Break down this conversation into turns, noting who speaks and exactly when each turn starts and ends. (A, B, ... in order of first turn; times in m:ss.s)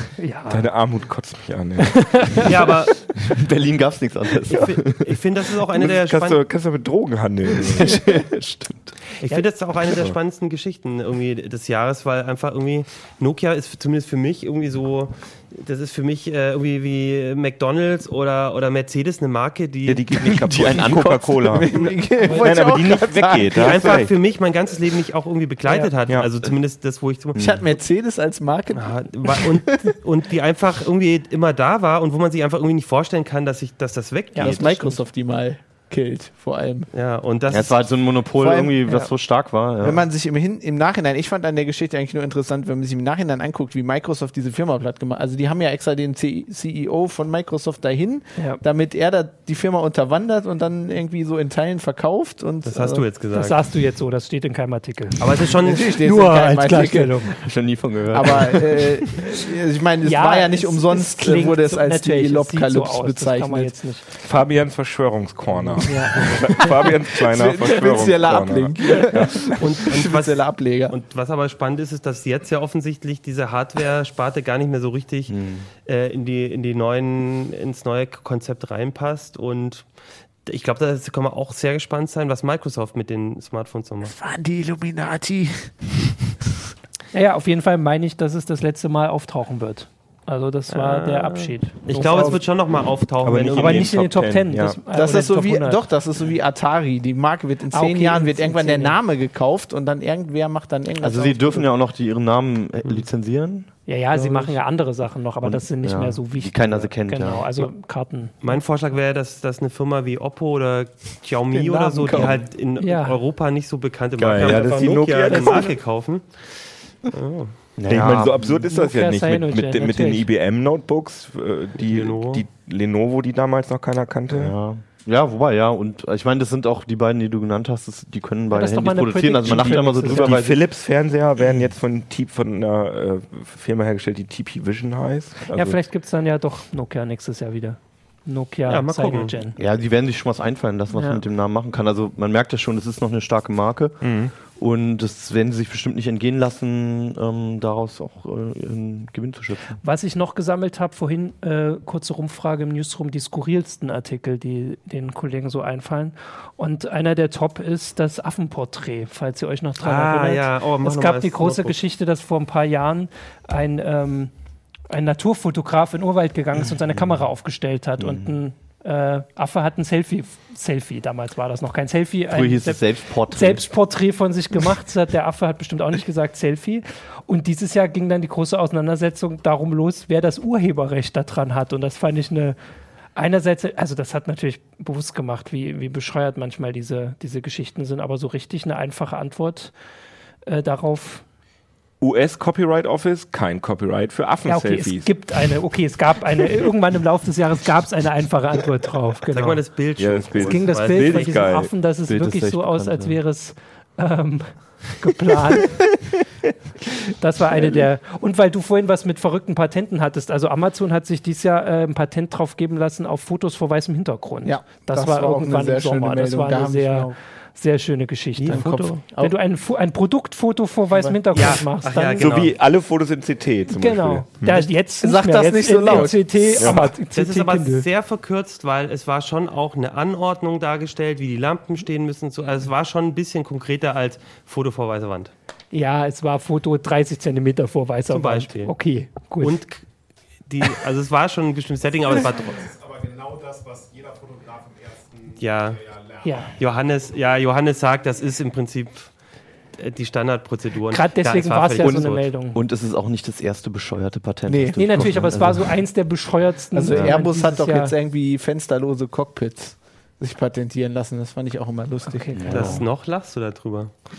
0:00.2-0:00.7 A
0:00.5-0:02.5 B
0:02.2-0:02.4 A
0:02.4-0:03.0 C
0:03.2-0:05.2 D
0:04.5-0:06.4 C
0:05.7-0:08.1 B
0:07.5-0:08.9 D
0:09.2-0:20.9 C
0:19.8-0:24.1 B
0:20.3-0:21.3 D
0:20.8-0:24.0 E
0:22.2-0:22.5 A
0:23.5-0:27.4 C
0:27.3-0:27.6 D
0:27.4-0:29.9 E
0:28.7-0:34.9 C
0:34.3-0:35.0 A
0:34.4-0:36.9 E
0:36.9-0:37.8 C
0:37.5-0:40.0 D
0:38.3-0:39.0 E
0:39.8-0:53.0 E
0:52.6-0:53.6 C
0:53.3-0:55.3 A
0:55.2-0:56.0 C
0:55.5-0:57.4 E
0:56.0-0:57.3 A
0:57.4-0:59.0 D
0:58.1-1:03.8 E
1:00.0-1:04.0 A
1:04.2-1:09.8 B
1:05.7-1:11.0 E
1:05.8-1:06.6 A
1:09.6-1:19.9 C
1:15.3-1:15.7 D
1:20.4-1:24.1 C
1:24.0-1:25.7 E
1:27.1-1:32.4 A
1:30.7-1:33.9 C
1:31.9-1:32.4 E
1:33.2-1:34.8 B
1:33.5-1:35.8 A
1:34.9-1:41.7 E
1:37.7-1:39.0 A
1:41.0-1:44.3 D
1:43.8-1:48.3 A
1:45.4-1:47.7 D
1:48.4-1:56.4 C
1:51.5-1:52.5 E
1:52.8-1:53.2 A
1:54.2-1:55.7 B
1:55.3-1:55.6 A
1:57.1-1:57.5 C
1:57.8-1:58.6 D
1:57.8-2:04.6 B
1:58.6-2:00.3 A
2:01.8-2:02.4 C
2:04.3-2:10.6 D
2:08.5-2:10.4 A
2:09.5-2:15.8 B
2:15.5-2:19.6 A
2:18.7-2:19.4 C
2:19.6-2:29.8 D
2:20.9-2:21.2 A
2:24.0-2:24.3 B
2:29.8-2:44.3 A
2:39.8-2:41.8 C
2:44.9-3:02.6 A
2:48.0-2:48.3 D
2:52.3-2:53.7 D
3:03.1-3:09.7 A
3:10.4-3:11.2 A
3:12.0-3:15.1 B
3:14.4-3:19.6 A
3:19.3-3:21.4 C
3:20.0-3:21.7 B
3:20.3-3:25.8 A
3:22.0-3:23.2 D
3:27.2-3:42.3 A
3:34.4-3:37.1 E
3:38.4-3:39.0 C
3:38.5-3:39.3 E
3:41.3-3:42.5 C
3:42.2-3:44.7 B
3:43.7-3:47.9 A
3:45.0-3:46.8 E
3:46.6-3:46.8 B
3:47.1-3:55.3 C
3:55.7-3:59.6 A
3:58.1-3:58.7 C
3:59.4-3:59.8 C
4:00.5-4:02.7 C
4:02.6-4:06.5 F
4:05.4-4:05.9 C
4:06.2-4:06.5 A
4:06.6-4:09.1 C
4:09.8-4:12.3 C
4:10.9-4:12.6 A
4:11.8-4:15.8 D
4:14.5-4:15.3 E
4:14.8-4:18.0 A
4:16.7-4:22.8 E
4:16.9-4:17.2 D
4:22.1-4:22.8 A
4:22.4-4:22.8 D
4:22.5-4:23.9 C